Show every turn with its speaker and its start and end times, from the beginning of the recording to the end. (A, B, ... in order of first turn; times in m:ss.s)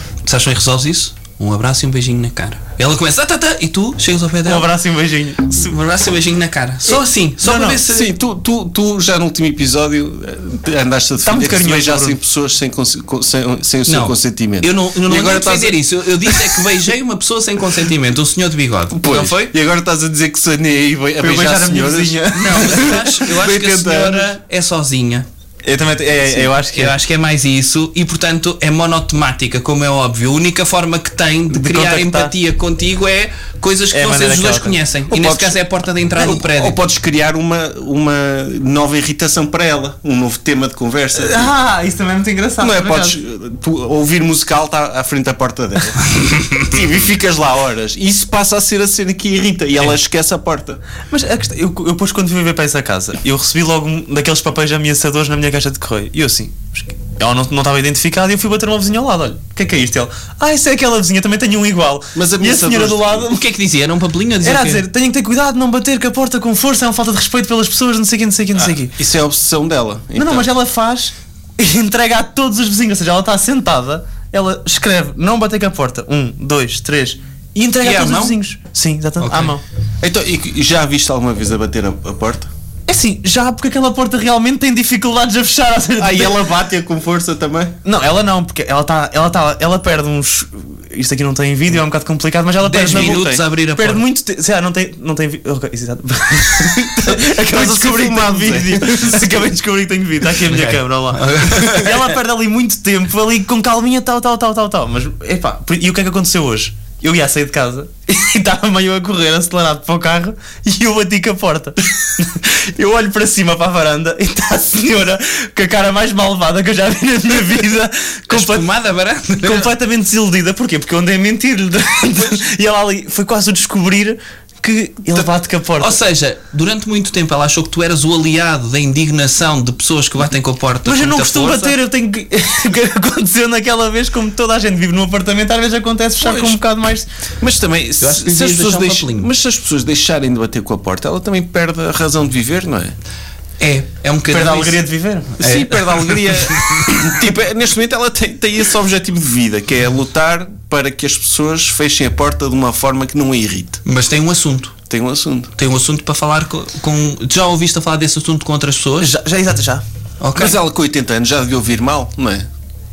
0:00.2-0:04.7 A
0:04.4-0:05.7 B
0:05.6-0:08.1 A
0:06.8-0:07.8 B
0:07.8-0:16.6 C
0:11.2-0:12.2 B
0:13.8-0:19.5 A
0:18.9-0:24.3 C
0:21.2-0:23.2 B
0:22.3-0:25.3 A
0:25.6-0:26.9 B
0:26.7-0:36.8 A
0:31.5-0:32.3 B
0:33.9-0:34.8 B
0:35.1-0:35.6 C
0:36.1-0:41.5 C
0:41.1-0:43.2 B
0:42.6-0:50.8 C
0:51.1-1:03.4 B
1:02.1-1:03.3 C
1:03.3-1:04.8 A
1:04.4-1:08.9 B
1:08.9-1:10.5 C
1:10.2-1:19.6 B
1:17.8-1:18.4 A
1:19.2-1:19.5 A
1:20.0-1:22.5 C
1:22.9-1:26.5 B
1:26.0-1:27.8 C
1:27.8-1:58.7 B
1:32.6-1:34.0 A
1:32.9-1:33.4 C
1:37.0-1:39.3 C
1:40.5-1:42.0 A
1:58.3-1:59.7 A
1:59.4-2:06.0 B
2:05.8-2:11.8 A
2:10.8-2:17.1 B
2:16.2-2:16.6 C
2:17.4-2:23.0 C
2:18.0-2:19.3 A
2:23.6-2:24.8 A
2:24.3-2:25.4 B
2:25.4-2:26.8 A
2:25.4-2:33.8 C
2:33.8-2:34.7 A
2:34.9-2:35.5 C
2:35.6-2:39.1 A
2:39.0-2:39.8 B
2:40.2-2:40.6 A
2:40.3-2:42.5 C